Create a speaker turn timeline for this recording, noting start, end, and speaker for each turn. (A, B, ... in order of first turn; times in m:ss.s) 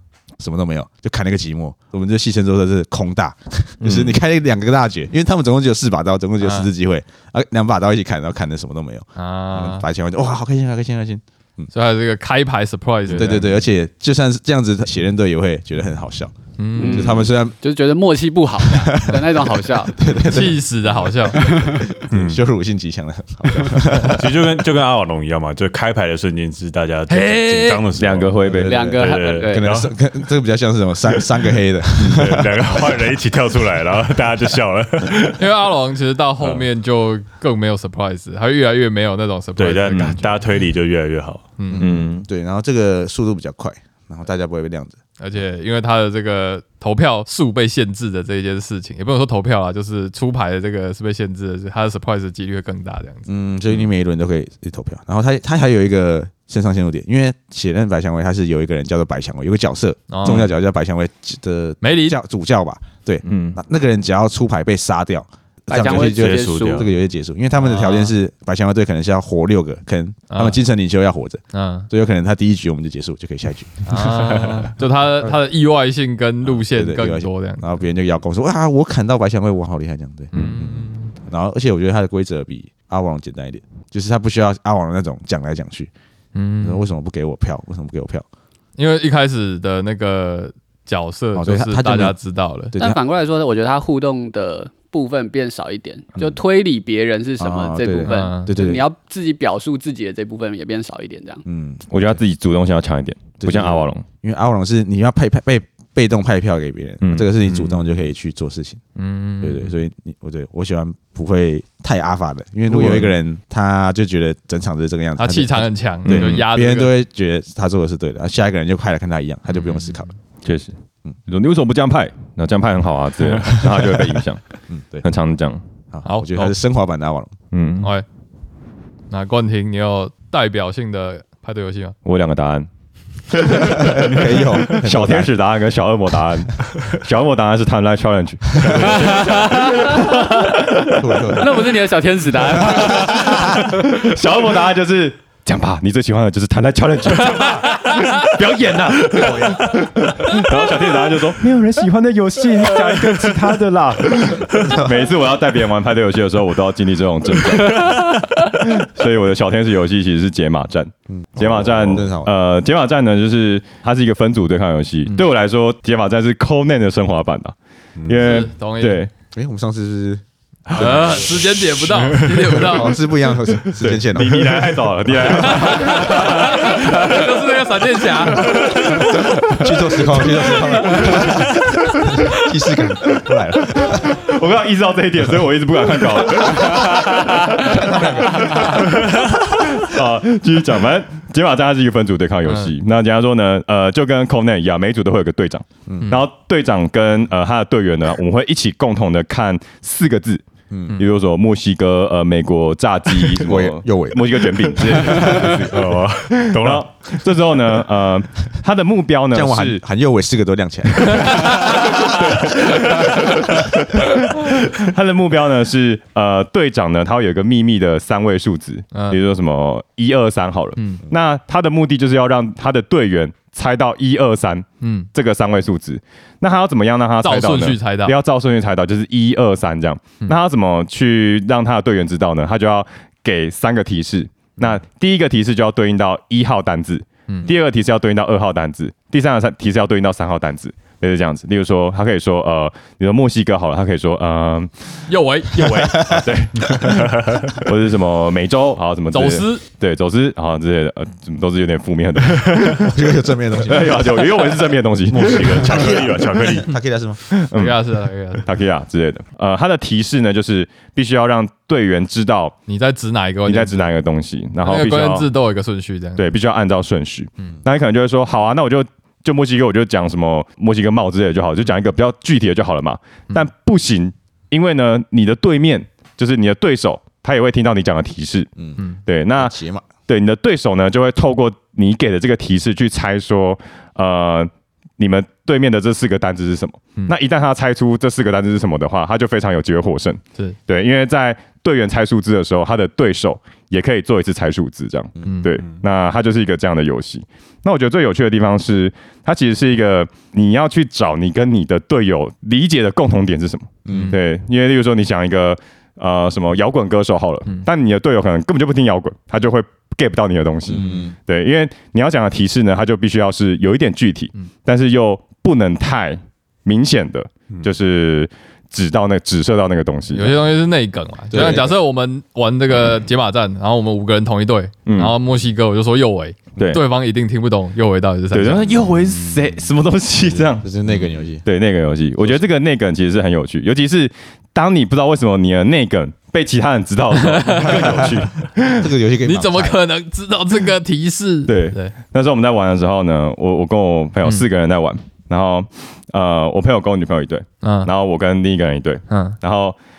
0:00.4-0:11.7 A
0:03.8-0:04.1 B
0:06.4-0:06.7 B
0:09.2-0:09.9 B
0:11.7-0:13.6 B
0:13.1-0:17.6 A
0:16.6-0:17.2 B
0:16.8-0:20.0 C
0:18.6-0:24.3 A
0:20.1-0:21.4 B
0:21.3-0:21.9 C
0:22.1-0:22.4 D
0:24.0-0:29.9 D
0:27.1-0:27.8 B
0:28.0-0:28.8 E
0:28.5-0:33.0 A
0:28.6-0:29.7 C
0:32.0-0:35.5 D
0:35.4-0:40.4 B
0:36.4-0:36.7 D
0:39.6-0:41.5 D
0:39.9-0:40.2 E
0:41.6-0:41.9 B
0:41.7-0:45.0 A
0:41.8-0:42.3 E
0:45.2-0:53.3 B
0:53.3-1:14.1 A
1:00.1-1:00.5 B
1:01.8-1:02.2 B
1:03.2-1:03.6 E
1:05.7-1:06.9 C
1:05.8-1:06.9 D
1:07.6-1:08.2 B
1:10.3-1:10.6 B
1:11.5-1:11.9 B
1:13.8-1:17.6 B
1:14.2-1:14.7 D
1:16.5-1:25.9 A
1:20.3-1:21.1 B
1:26.3-1:26.9 B
1:26.6-1:28.2 A
1:28.8-1:32.8 B
1:31.4-1:32.2 A
1:32.7-1:33.0 A
1:32.8-1:41.4 C
1:37.4-1:38.9 A
1:38.1-1:38.5 B
1:41.5-1:42.2 A
1:41.9-1:44.0 E
1:43.4-1:48.8 A
1:47.0-1:47.5 E
1:49.0-1:49.8 B
1:49.4-2:00.1 A
1:52.7-1:53.1 B
1:55.2-1:57.0 B
1:56.0-1:56.4 E
2:00.4-2:00.7 E
2:01.3-2:04.4 E
2:03.4-2:03.9 A
2:04.7-2:05.0 A
2:05.0-2:05.6 E
2:05.9-2:07.4 A
2:06.0-2:06.5 B
2:07.5-2:07.9 E
2:07.8-2:08.0 B
2:09.1-2:12.0 B
2:12.0-2:12.7 E
2:13.3-2:21.1 E
2:13.6-2:15.3 A
2:18.6-2:19.2 A
2:18.8-2:20.1 C
2:20.9-2:21.7 A
2:21.4-2:23.6 C
2:22.5-2:23.7 A
2:22.8-2:49.1 E
2:27.4-2:28.0 B
2:29.1-2:29.8 A
2:34.5-2:35.0 A
2:41.1-2:42.3 A
2:48.2-2:49.1 B
2:49.3-2:54.7 A
2:50.8-2:53.0 B
2:53.8-2:57.2 E
2:55.3-2:59.2 B
2:58.4-2:59.5 E
2:59.5-3:04.2 A
3:00.5-3:01.3 B
3:03.8-3:20.4 E
3:06.3-3:09.0 A
3:12.5-3:12.7 B
3:15.9-3:16.1 A
3:20.7-3:21.0 A
3:21.0-3:29.8 E
3:23.3-3:25.6 A
3:25.2-3:27.2 D
3:29.3-3:32.3 A
3:31.4-4:05.1 E
3:38.9-3:39.2 B
3:40.8-3:41.0 B
3:44.8-3:45.1 B
3:47.2-3:48.2 B
4:05.1-4:06.2 B
4:05.6-4:13.0 E
4:05.8-4:06.3 A
4:06.8-4:07.5 D
4:09.1-4:09.6 B
4:12.8-4:14.4 A
4:13.6-4:15.9 E
4:15.1-4:16.7 D
4:15.5-4:17.2 A
4:17.3-4:17.9 E
4:17.6-4:18.5 B
4:18.4-4:22.6 E
4:22.7-4:23.9 B
4:23.5-4:25.3 E
4:24.6-4:26.3 B
4:26.2-5:20.4 E
4:39.3-4:39.9 A
4:55.3-4:55.5 B
5:03.9-5:04.2 A
5:03.9-5:04.2 B
5:10.7-5:11.2 A
5:20.1-5:28.8 B
5:21.3-5:21.8 A
5:24.9-5:25.2 E
5:26.6-5:26.8 E
5:28.3-5:30.7 E
5:30.6-5:31.4 A
5:31.4-5:38.9 E
5:37.2-5:38.2 B
5:37.6-5:39.8 A
5:39.2-5:41.9 B
5:41.5-5:49.8 E
5:47.6-5:47.9 B
5:49.1-5:49.4 B